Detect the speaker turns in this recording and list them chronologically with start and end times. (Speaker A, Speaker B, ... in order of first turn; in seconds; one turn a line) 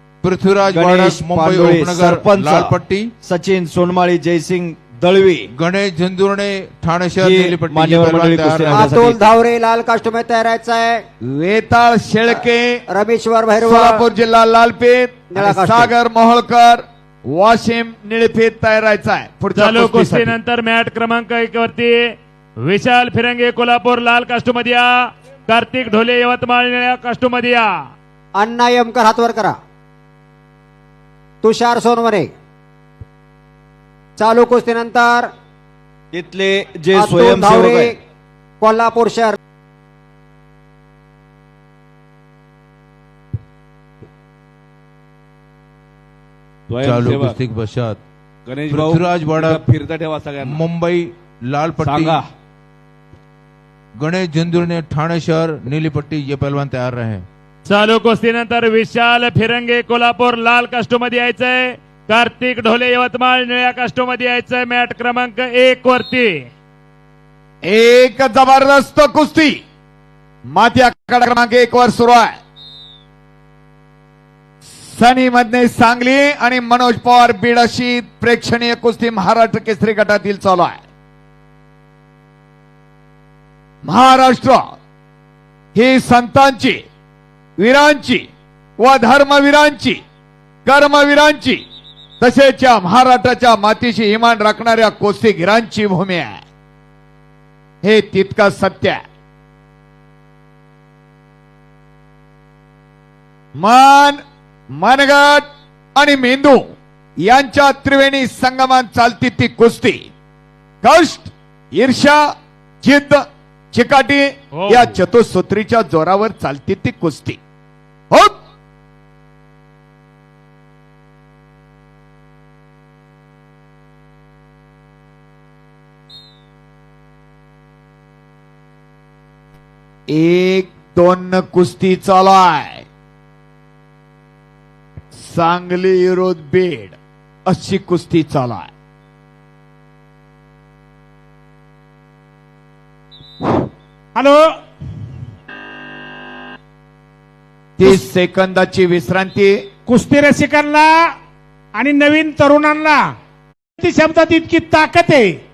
Speaker A: 0.2-3.1
Speaker B: 0.6-5.5
Speaker A: 5.5-8.9
Speaker B: 7.2-9.2
Speaker C: 8.7-11.0
Speaker D: 11.2-12.8
Speaker C: 12.9-14.1
Speaker D: 13.6-20.3
Speaker C: 15.3-15.9
Speaker E: 19.6-24.9
Speaker E: 25.5-27.7
Speaker C: 28.4-29.6
Speaker C: 31.4-32.3
Speaker C: 34.2-35.3
Speaker B: 36.1-37.9
Speaker C: 36.9-38.0
Speaker C: 38.6-39.4
Speaker F: 46.7-47.4
Speaker A: 46.8-48.0
Speaker F: 48.5-50.6
Speaker A: 48.7-49.6
Speaker A: 50.4-52.2
Speaker F: 51.8-52.2
Speaker A: 54.0-57.3
Speaker E: 57.7-66.5
Speaker D: 67.6-69.6
Speaker D: 70.5-72.4
Speaker D: 74.8-80.8
Speaker D: 83.8-84.6
Speaker D: 85.8-86.8
Speaker D: 87.6-88.3
Speaker D: 88.8-90.0
Speaker D: 90.7-91.6
Speaker D: 92.2-96.4
Speaker D: 97.8-99.0
Speaker D: 103.6-104.2
Speaker D: 104.8-106.6
Speaker D: 107.2-110.0
Speaker D: 110.8-112.3
Speaker D: 112.8-113.2
Speaker D: 113.7-117.4
Speaker E: 114.6-115.0
Speaker D: 130.1-132.8
Speaker D: 135.2-138.7
Speaker G: 144.2-144.5
Speaker D: 147.8-149.6
Speaker G: 149.9-151.0
Speaker G: 151.8-153.1
Speaker G: 153.8-155.3